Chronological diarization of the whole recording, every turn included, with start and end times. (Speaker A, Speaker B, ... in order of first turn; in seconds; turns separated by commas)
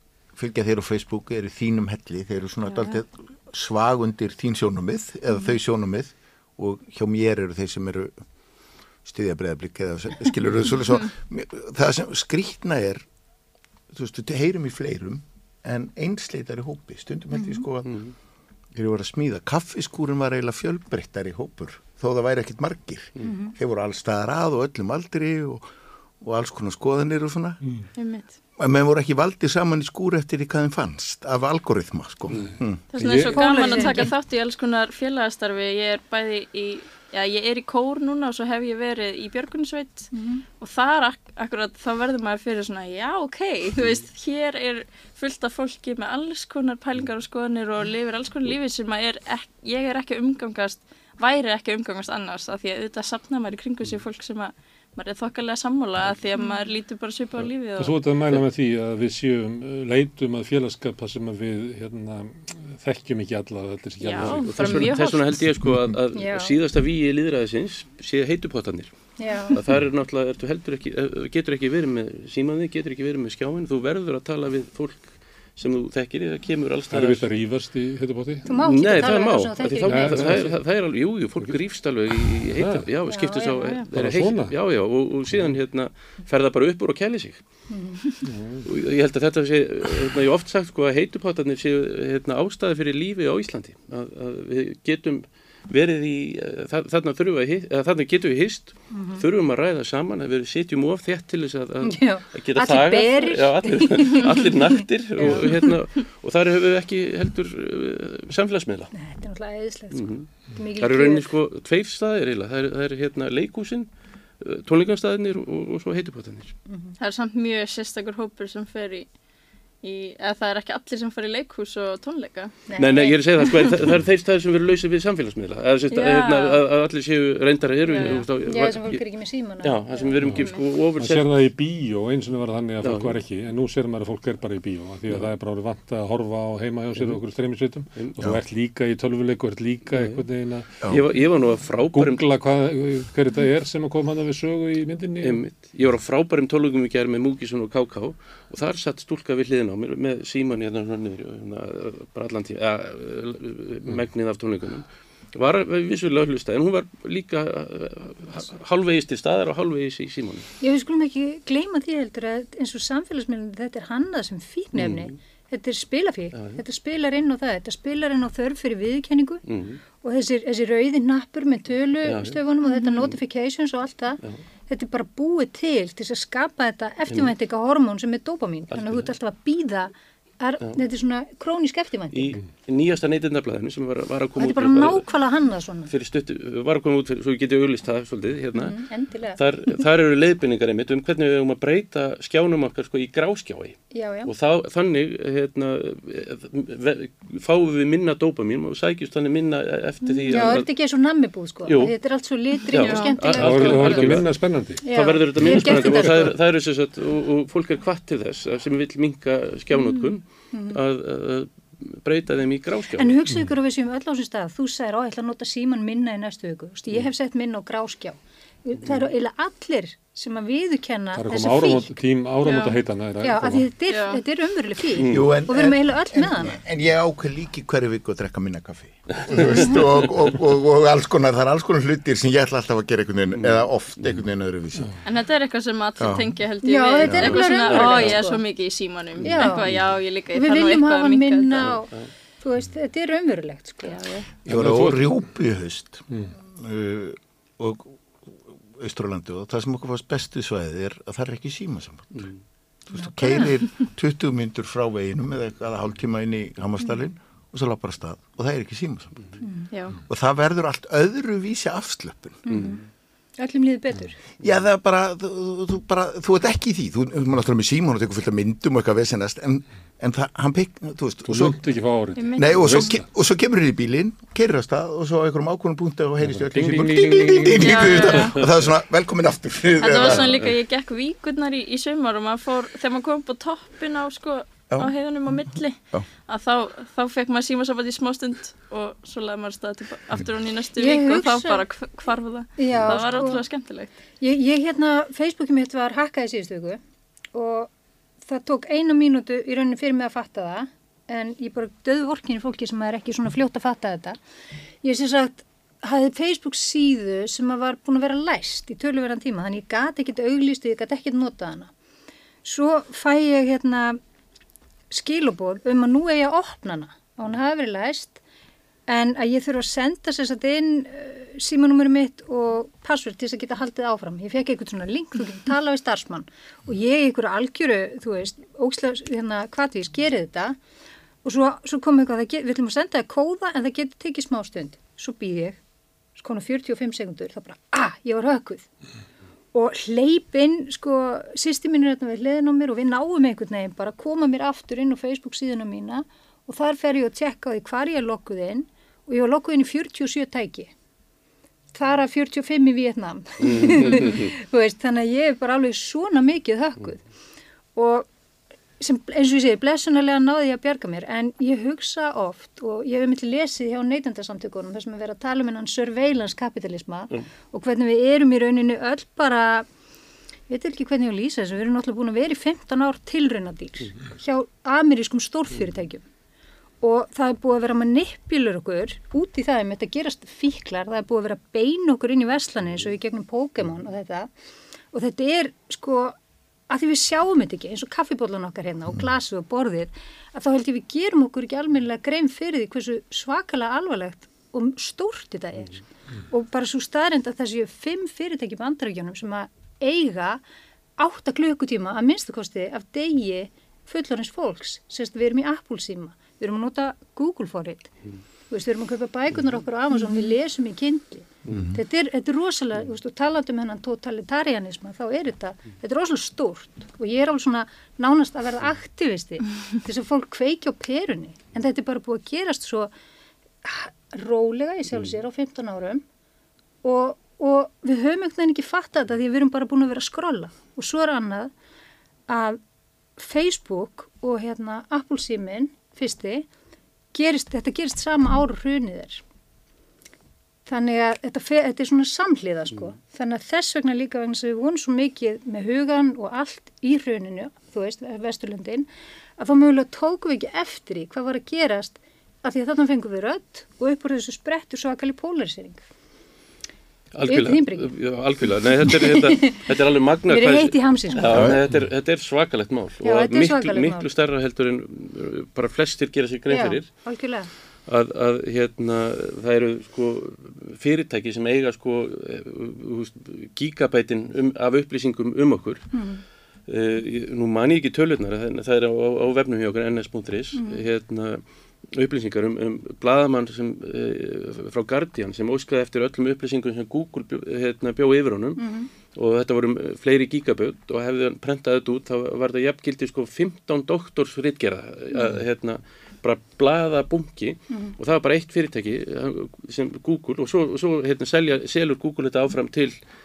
Speaker A: 0.3-8.1, Speaker A: 9.0-13.1, Speaker A: 13.9-17.9, Speaker B: 17.3-17.7, Speaker C: 17.8-18.1, Speaker A: 18.7-25.7, Speaker B: 23.2-23.5, Speaker A: 26.2-27.6, Speaker D: 27.9-28.3, Speaker A: 28.6-32.8, Speaker E: 32.4-33.9, Speaker D: 32.9-58.0, Speaker B: 33.3-34.1, Speaker B: 40.1-40.4, Speaker B: 56.3-56.6, Speaker E: 57.8-64.9, Speaker D: 64.0-65.4, Speaker C: 64.2-77.3, Speaker B: 66.1-66.6, Speaker B: 69.2-69.6, Speaker E: 76.9-78.5, Speaker B: 78.5-80.4, Speaker C: 78.5-87.4, Speaker E: 79.8-80.6, Speaker E: 82.1-82.9, Speaker B: 83.1-83.8, Speaker E: 83.9-84.5, Speaker E: 85.3-85.5, Speaker B: 87.7-88.0, Speaker E: 88.2-88.7, Speaker C: 88.6-108.9, Speaker B: 98.9-99.2, Speaker B: 101.8-105.7, Speaker B: 108.9-111.3, Speaker C: 109.9-116.5, Speaker B: 116.7-116.9, Speaker D: 117.0-119.1, Speaker D: 119.8-122.6, Speaker B: 122.7-123.7, Speaker C: 122.8-129.0, Speaker D: 125.9-126.6, Speaker D: 127.9-128.2, Speaker B: 128.0-130.2, Speaker C: 129.6-131.3, Speaker E: 131.0-140.9, Speaker C: 132.8-133.2, Speaker C: 139.9-140.2, Speaker C: 140.9-142.2, Speaker E: 141.9-145.4, Speaker C: 145.2-160.5, Speaker B: 160.6-169.4, Speaker C: 164.7-165.1, Speaker C: 166.3-166.6, Speaker C: 169.4-169.8, Speaker B: 170.0-182.4, Speaker C: 172.0-173.2, Speaker C: 178.7-179.1, Speaker C: 182.1-185.1, Speaker B: 184.4-185.9, Speaker C: 185.9-188.8, Speaker B: 188.6-189.8, Speaker C: 189.3-200.7, Speaker B: 193.9-194.3, Speaker D: 200.1-200.6, Speaker B: 200.3-204.2, Speaker C: 201.6-201.9, Speaker C: 202.6-213.2, Speaker D: 202.7-203.2, Speaker E: 203.3-204.8, Speaker B: 204.8-206.3, Speaker E: 205.3-206.0, Speaker B: 209.7-210.8, Speaker B: 212.9-222.0, Speaker E: 221.1-223.7, Speaker D: 222.4-222.8, Speaker B: 223.2-226.6, Speaker D: 223.9-224.2, Speaker C: 224.9-225.3, Speaker A: 225.1-234.9, Speaker C: 229.1-230.1, Speaker C: 233.3-233.6, Speaker D: 235.0-241.7, Speaker A: 236.0-236.3, Speaker B: 236.6-238.4, Speaker C: 237.1-238.2, Speaker C: 239.2-240.0, Speaker B: 239.2-239.7, Speaker B: 240.3-244.1, Speaker C: 241.6-242.1, Speaker D: 243.8-244.2, Speaker E: 244.4-245.2, Speaker A: 244.5-252.3, Speaker A: 252.9-259.2, Speaker B: 252.9-253.6, Speaker B: 259.4-259.7, Speaker D: 259.7-260.0, Speaker A: 260.1-262.5, Speaker B: 262.5-262.8, Speaker C: 262.5-262.8, Speaker B: 263.4-264.2, Speaker A: 264.4-271.6, Speaker E: 271.2-273.0, Speaker D: 272.1-272.6, Speaker A: 272.4-280.3, Speaker E: 276.5-278.2, Speaker D: 277.6-278.3, Speaker C: 278.3-278.7, Speaker D: 279.8-293.9, Speaker C: 280.1-280.5, Speaker A: 284.7-286.1, Speaker B: 290.8-291.6, Speaker B: 292.6-293.4, Speaker A: 292.7-293.0, Speaker B: 294.2-296.8, Speaker B: 297.3-297.7, Speaker B: 298.2-304.2, Speaker B: 304.8-311.7, Speaker B: 312.4-314.0, Speaker B: 314.9-318.2, Speaker B: 318.9-330.6, Speaker B: 331.2-335.6, Speaker B: 336.1-338.6, Speaker B: 339.5-350.7, Speaker B: 351.7-357.0, Speaker C: 353.4-354.3, Speaker B: 357.7-358.1, Speaker B: 358.8-369.6, Speaker B: 370.5-376.0, Speaker B: 376.8-384.3, Speaker B: 384.9-386.1, Speaker B: 386.7-400.4, Speaker B: 401.0-407.9, Speaker B: 408.5-422.9, Speaker A: 411.5-411.8, Speaker B: 423.6-426.0, Speaker B: 426.8-431.5, Speaker B: 432.3-432.6, Speaker B: 433.2-436.5, Speaker B: 437.1-439.2, Speaker B: 440.6-455.8, Speaker C: 457.1-466.9, Speaker B: 457.2-457.9, Speaker B: 458.8-459.7, Speaker B: 460.3-461.5, Speaker A: 461.3-461.6, Speaker B: 463.0-464.1, Speaker B: 466.5-467.5, Speaker C: 467.9-475.9, Speaker B: 475.9-476.2, Speaker C: 476.7-488.6, Speaker B: 480.5-480.8, Speaker B: 488.6-488.9, Speaker C: 489.1-503.0, Speaker B: 497.7-497.9